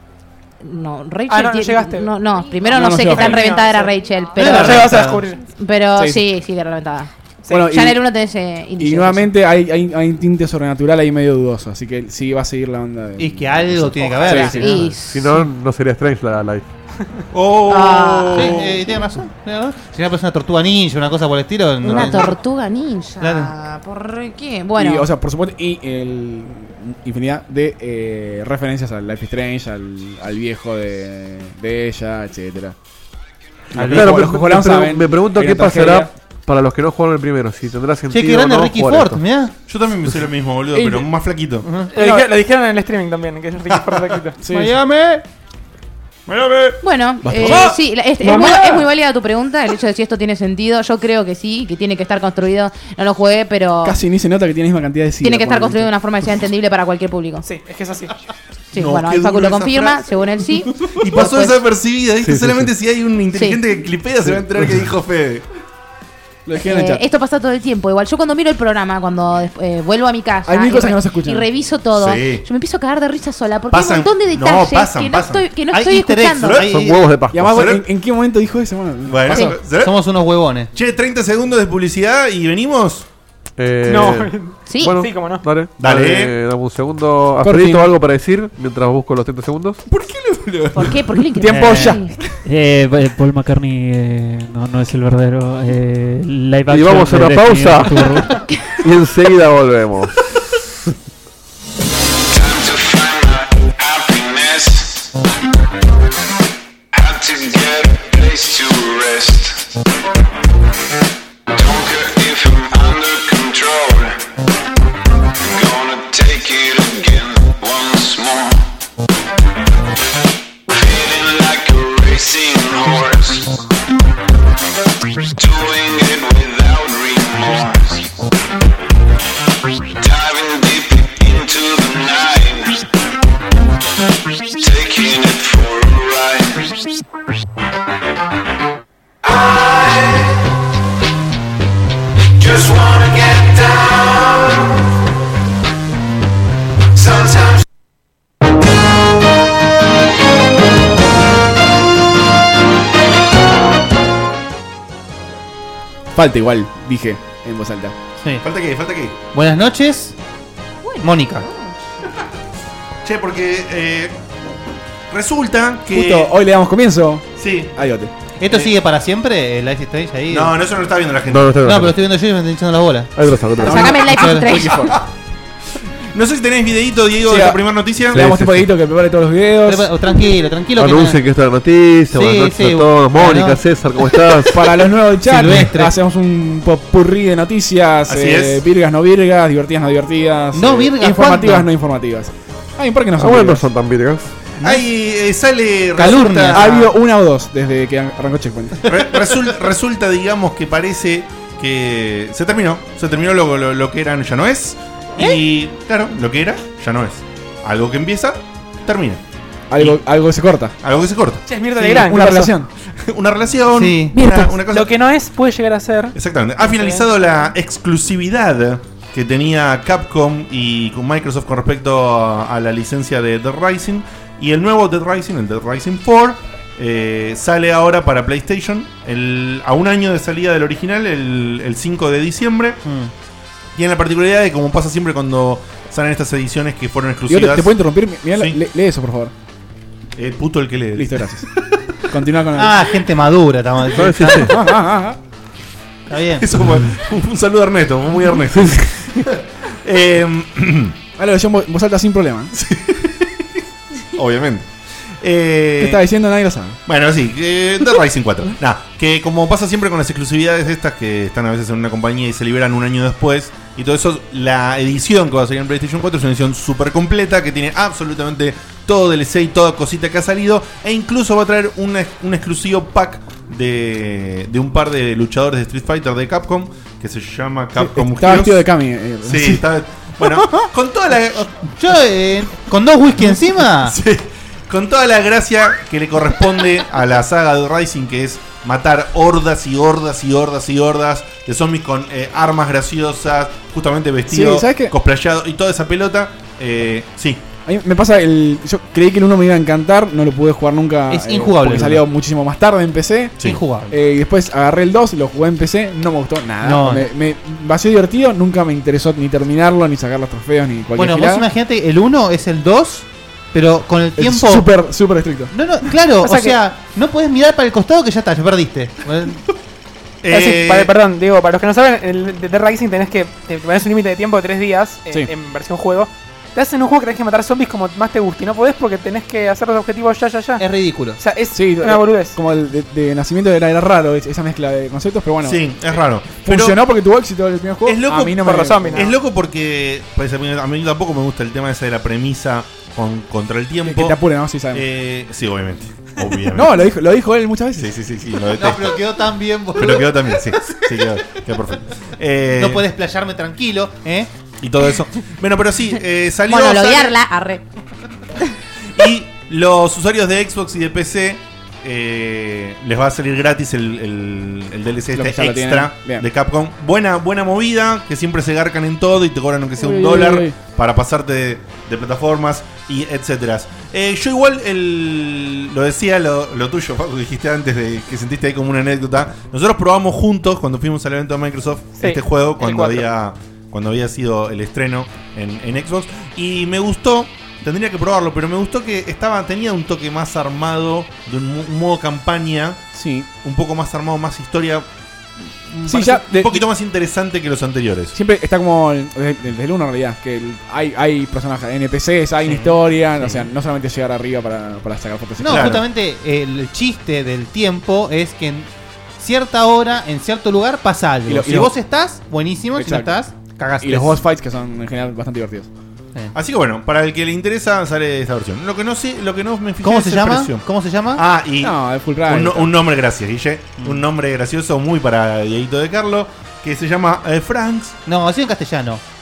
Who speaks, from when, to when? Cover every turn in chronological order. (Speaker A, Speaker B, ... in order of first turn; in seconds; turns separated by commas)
Speaker A: 0.6-9.3, Speaker B: 1.3-2.1, Speaker C: 2.7-3.5, Speaker B: 2.7-5.4, Speaker D: 4.4-5.2, Speaker C: 5.9-6.2, Speaker B: 7.5-7.7, Speaker C: 7.5-8.0, Speaker C: 8.8-14.9, Speaker D: 13.2-14.9, Speaker A: 14.2-15.4, Speaker E: 15.0-16.7, Speaker F: 17.3-19.0, Speaker A: 17.7-18.7, Speaker D: 18.3-22.4, Speaker A: 21.8-25.1, Speaker D: 23.2-23.5, Speaker C: 24.8-32.8, Speaker C: 33.7-36.1, Speaker D: 33.7-34.1, Speaker E: 33.8-39.2, Speaker D: 38.1-39.5, Speaker F: 39.7-41.7, Speaker C: 40.7-41.1, Speaker D: 41.6-41.9, Speaker B: 41.9-44.4, Speaker C: 42.0-42.3, Speaker F: 43.7-44.0, Speaker C: 44.4-44.8, Speaker D: 44.5-45.2, Speaker F: 46.3-46.8, Speaker A: 46.8-54.0, Speaker C: 47.2-48.8, Speaker C: 53.8-55.9, Speaker A: 55.2-57.4, Speaker B: 57.4-58.1, Speaker A: 58.7-61.6, Speaker F: 58.7-60.1, Speaker F: 60.9-65.4, Speaker E: 62.2-62.7, Speaker A: 63.3-63.6, Speaker C: 66.5-67.0, Speaker A: 66.5-76.7, Speaker C: 70.5-71.5, Speaker F: 71.9-72.4, Speaker F: 73.7-75.5, Speaker D: 75.7-77.1, Speaker F: 76.4-76.9, Speaker E: 76.7-77.6, Speaker C: 77.3-79.6, Speaker F: 77.4-77.8, Speaker F: 79.0-80.0, Speaker A: 79.3-79.5, Speaker D: 79.6-80.7, Speaker F: 80.7-83.1, Speaker E: 83.6-89.8, Speaker B: 83.8-85.5, Speaker A: 84.7-85.0, Speaker F: 85.8-86.3, Speaker C: 87.4-88.0, Speaker F: 89.8-91.0, Speaker A: 90.7-92.1, Speaker C: 91.3-92.4, Speaker G: 91.5-98.3, Speaker E: 96.7-98.2, Speaker E: 98.8-100.2, Speaker H: 102.3-105.1, Speaker H: 106.9-109.7, Speaker H: 111.5-114.2, Speaker H: 115.4-118.6, Speaker H: 120.7-123.6, Speaker H: 125.3-128.1, Speaker H: 130.0-132.9, Speaker H: 134.5-136.8, Speaker H: 139.2-140.3, Speaker H: 142.4-144.6, Speaker H: 147.1-147.4, Speaker C: 156.1-157.9, Speaker D: 158.2-158.4, Speaker F: 158.4-159.2, Speaker D: 159.3-160.2, Speaker A: 160.8-161.7, Speaker D: 161.0-161.5, Speaker F: 163.0-164.2, Speaker F: 165.1-166.3, Speaker C: 165.9-168.1, Speaker F: 167.4-167.8, Speaker D: 168.4-170.6, Speaker F: 170.3-171.9, Speaker E: 171.3-171.9, Speaker D: 171.6-173.2, Speaker E: 173.2-174.1, Speaker C: 173.6-174.9, Speaker A: 173.6-174.9, Speaker D: 174.0-174.6, Speaker F: 174.5-175.0, Speaker F: 176.1-178.3, Speaker C: 177.2-179.9, Speaker E: 178.1-178.7, Speaker D: 179.6-181.2, Speaker E: 180.8-184.7, Speaker D: 182.1-183.6, Speaker C: 184.5-193.7, Speaker D: 185.2-185.9, Speaker F: 188.1-188.6, Speaker D: 190.5-191.7, Speaker E: 193.2-194.3, Speaker D: 194.6-194.8, Speaker F: 194.6-196.9, Speaker D: 196.0-196.9, Speaker C: 196.0-198.8, Speaker F: 198.8-209.2, Speaker C: 209.7-210.7, Speaker F: 209.8-210.0, Speaker F: 210.8-214.9, Speaker B: 211.4-212.5, Speaker C: 211.8-212.7, Speaker D: 213.7-214.2, Speaker C: 214.2-214.4, Speaker B: 214.7-217.1, Speaker F: 216.1-232.8, Speaker D: 232.8-233.1, Speaker F: 233.8-237.8, Speaker C: 237.3-239.3, Speaker F: 238.3-238.6, Speaker F: 240.2-241.9, Speaker C: 240.9-241.4, Speaker C: 242.1-242.8, Speaker D: 242.5-244.6, Speaker E: 243.9-244.6, Speaker C: 244.3-245.2, Speaker D: 246.1-246.5, Speaker F: 246.4-250.9, Speaker C: 251.2-252.5, Speaker F: 252.5-253.6, Speaker F: 254.1-254.7, Speaker F: 255.2-256.0, Speaker C: 255.8-256.8, Speaker F: 256.9-278.7, Speaker C: 277.8-279.6, Speaker F: 279.2-281.6, Speaker D: 280.3-280.6, Speaker D: 281.6-284.0, Speaker F: 283.8-297.4, Speaker C: 294.3-294.9, Speaker C: 297.6-303.4, Speaker D: 301.1-302.0, Speaker D: 303.4-303.9, Speaker C: 303.9-311.4, Speaker D: 306.6-307.1, Speaker D: 310.9-314.7, Speaker C: 314.2-315.5, Speaker D: 315.5-319.4, Speaker B: 316.2-316.6, Speaker F: 320.2-320.9, Speaker B: 320.3-330.6, Speaker D: 330.6-331.2, Speaker B: 331.2-332.4, Speaker C: 331.5-335.6, Speaker F: 335.4-336.8, Speaker C: 336.4-339.1, Speaker F: 337.8-344.2, Speaker B: 338.4-339.1, Speaker C: 343.8-344.8, Speaker F: 344.7-346.9, Speaker C: 346.5-347.9, Speaker F: 347.8-349.0, Speaker D: 348.5-350.5, Speaker F: 349.8-352.8, Speaker D: 352.5-354.3, Speaker F: 354.6-357.2, Speaker A: 356.5-357.6, Speaker F: 358.9-392.8, Speaker C: 365.1-366.2, Speaker C: 369.8-370.6, Speaker B: 382.0-383.1, Speaker C: 392.9-393.3, Speaker F: 393.4-394.9, Speaker F: 395.7-398.1, Speaker C: 395.9-396.6, Speaker C: 398.1-405.8, Speaker D: 402.4-403.5, Speaker D: 405.4-414.2, Speaker F: 405.4-405.8, Speaker C: 411.3-411.7, Speaker C: 412.8-413.1, Speaker C: 413.8-415.7, Speaker F: 416.3-420.6, Speaker D: 419.8-421.2, Speaker F: 421.1-428.0, Speaker C: 421.6-422.7, Speaker D: 428.1-429.0